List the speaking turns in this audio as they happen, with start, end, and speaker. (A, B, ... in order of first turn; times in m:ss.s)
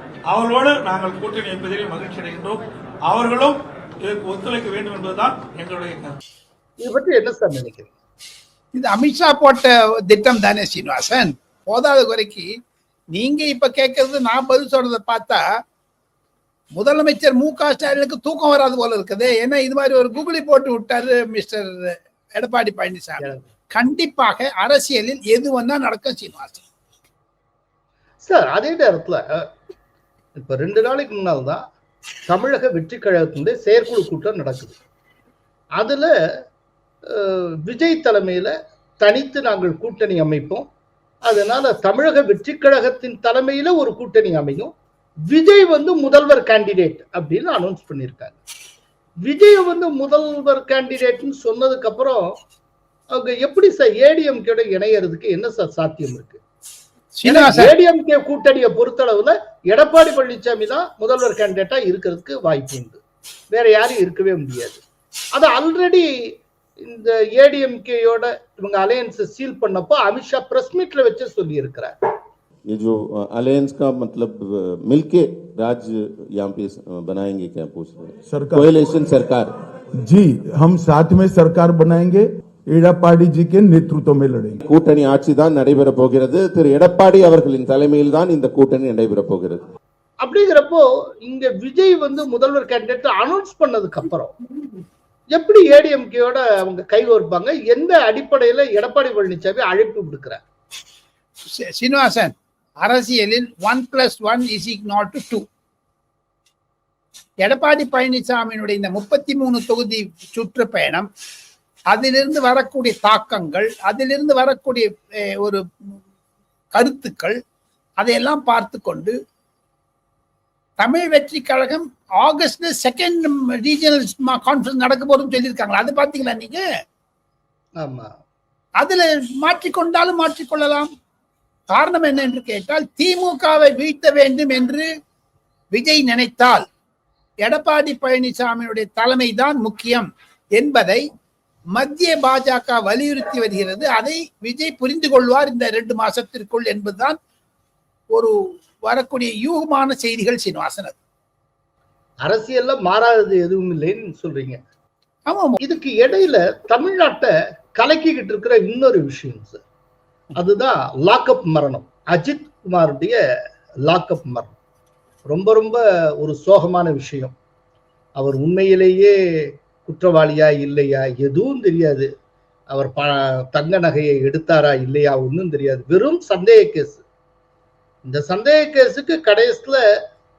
0:00.3-0:06.2 A
0:06.8-0:07.9 B
0:08.8-0:12.5 C
0:13.1-0:15.4 C
0:16.8-0:26.6 C
0:23.2-0:23.5 B
0:28.2-0:29.5 B
0:30.4-0:31.6 B
0:32.3-0:34.8 B
0:35.8-0:36.1 B
0:37.1-0:40.7 B
0:41.2-0:44.7 B
0:45.3-0:48.4 B
0:49.2-0:52.3 B
0:53.1-0:56.4 B
0:57.2-0:57.7 C
0:57.2-1:03.0 B
1:03.5-1:04.8 B
1:05.4-1:06.1 B
1:06.8-1:11.9 B
1:12.7-1:19.5 D
1:18.3-1:18.7 E
1:20.0-1:24.6 E
1:24.6-1:29.7 D
1:30.2-1:34.4 B
1:35.3-1:40.4 B
1:41.6-1:45.4 C
1:47.4-1:51.1 C
1:51.9-1:55.6 C
1:56.8-1:57.4 C
1:58.0-1:59.2 C
2:00.8-2:06.6 C
2:07.8-2:08.2 B
2:08.8-2:10.9 C
2:11.7-2:14.9 C
2:15.7-2:16.6 C
2:17.4-2:21.0 C
2:21.8-2:27.2 C
2:28.9-2:31.0 C
2:32.2-2:34.6 B
2:35.3-2:35.6 C
2:35.6-2:39.6 B
2:40.4-2:43.2 B
2:43.8-2:44.6 B
2:45.3-2:47.4 B
2:48.2-2:52.1 B
2:52.7-2:57.0 B
2:58.0-2:59.8 B